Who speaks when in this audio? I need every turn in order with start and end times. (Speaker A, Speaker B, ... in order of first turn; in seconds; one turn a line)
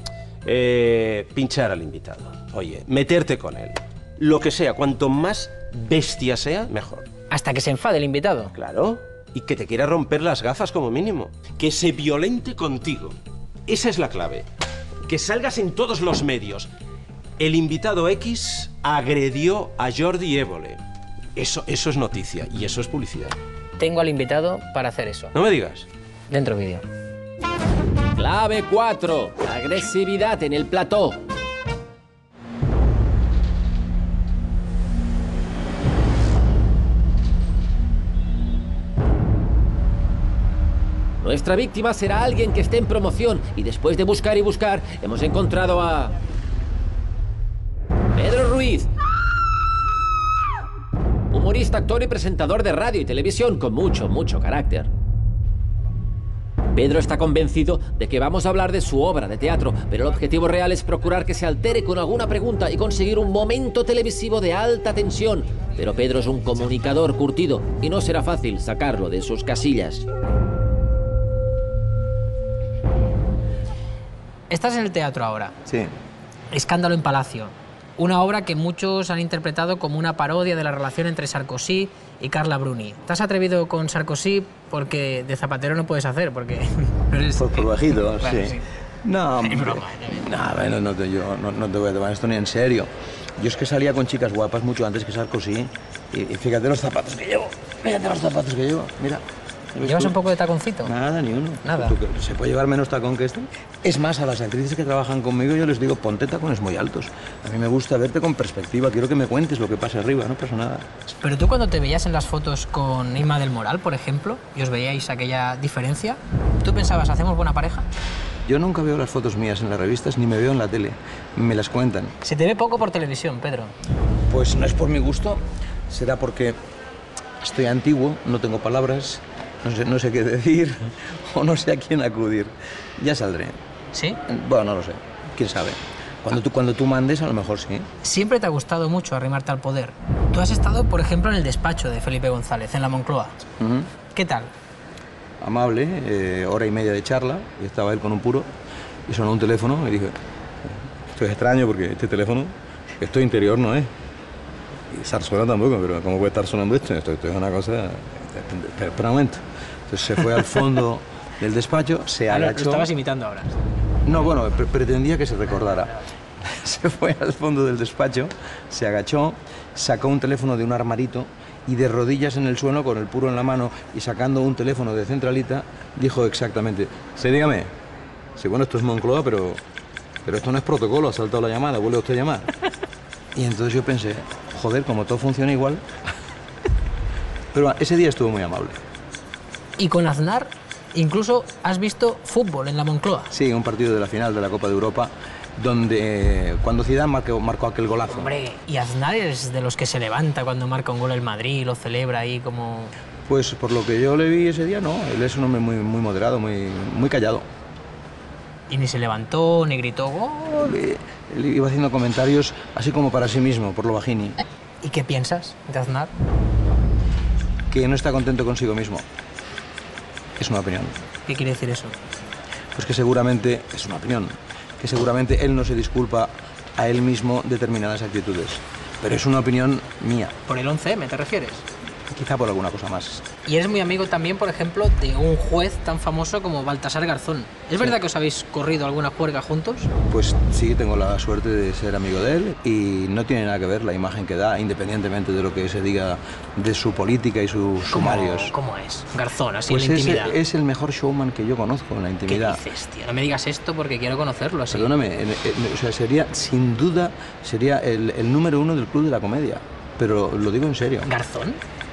Speaker A: 0.5-7.1
Speaker B: 7.3-8.5
Speaker A: 8.6-14.5
Speaker A: 15.1-16.7
Speaker A: 17.4-20.8
Speaker A: 21.4-23.4
Speaker B: 23.8-25.4
Speaker A: 25.4-25.9
Speaker B: 26.3-26.8
Speaker C: 28.2-31.2
Speaker C: 41.2-46.2
Speaker C: 48.1-48.9
Speaker C: 51.3-54.9
Speaker C: 56.7-70.0
Speaker B: 74.5-75.6
Speaker D: 75.7-75.9
Speaker B: 76.5-88.6
Speaker D: 87.4-99.2
Speaker B: 89.4-90.3
Speaker D: 99.8-100.2
Speaker B: 99.8-100.9
Speaker D: 100.8-110.9
Speaker B: 101.6-102.0
Speaker B: 111.2-117.9
Speaker D: 118.5-122.1
Speaker B: 122.2-123.7
Speaker D: 124.3-126.6
Speaker D: 127.4-133.6
Speaker B: 133.9-134.2
Speaker D: 134.3-137.9
Speaker B: 138.0-143.4
Speaker D: 143.6-143.9
Speaker B: 144.1-144.5
Speaker D: 145.4-148.5
Speaker D: 149.1-153.9
Speaker D: 154.9-162.9
Speaker B: 162.3-163.6
Speaker D: 164.1-177.7
Speaker B: 165.6-166.0
Speaker D: 178.4-179.6
Speaker D: 180.3-182.5
Speaker D: 183.3-185.8
Speaker D: 187.5-188.8
Speaker B: 189.8-193.3
Speaker D: 193.3-198.3
Speaker B: 198.1-202.9
Speaker D: 203.3-207.4
Speaker B: 208.7-210.8
Speaker D: 210.6-214.4
Speaker B: 214.8-216.1
Speaker D: 217.7-219.0
Speaker D: 220.4-220.9
Speaker B: 221.3-221.9
Speaker D: 222.7-230.3
Speaker B: 230.5-231.6
Speaker D: 232.1-233.3
Speaker B: 233.4-239.9
Speaker D: 240.1-248.6
Speaker B: 247.9-250.4
Speaker D: 249.7-252.7
Speaker B: 252.3-254.9
Speaker D: 254.7-261.1
Speaker B: 261.1-261.6